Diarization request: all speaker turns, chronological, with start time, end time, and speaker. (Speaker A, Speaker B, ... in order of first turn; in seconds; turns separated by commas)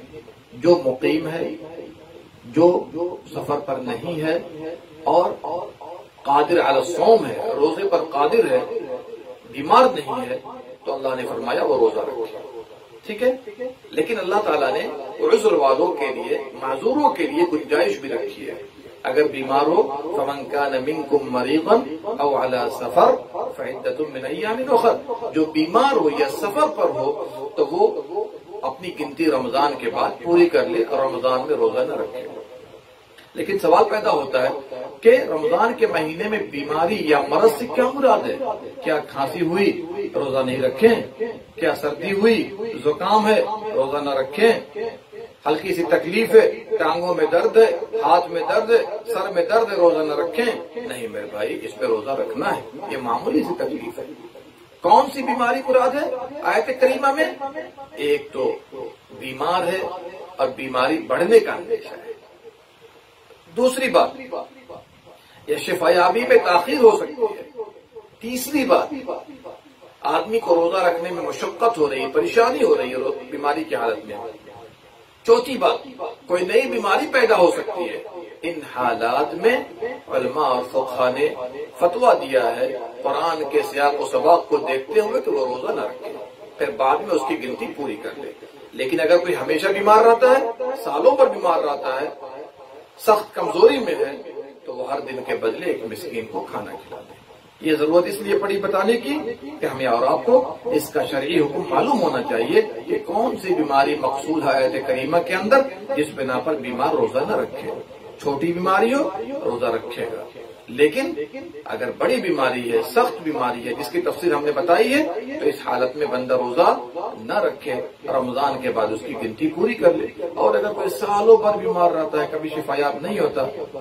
Speaker A: 0.6-1.6, Speaker A: 2.5-4.5, Speaker A: 5.0-5.4, Speaker A: 6.2-8.7, Speaker A: 9.5-12.4, Speaker A: 13.0-13.4, Speaker A: 13.9-28.0, Speaker A: 28.6-32.4, Speaker A: 33.3-44.7, Speaker A: 45.4-54.2, Speaker A: 54.8-57.4, Speaker A: 58.0-62.1, Speaker A: 63.5-64.2, Speaker A: 65.5-67.5, Speaker A: 68.2-69.0, Speaker A: 70.0-74.3, Speaker A: 75.2-92.1, Speaker A: 93.0-123.5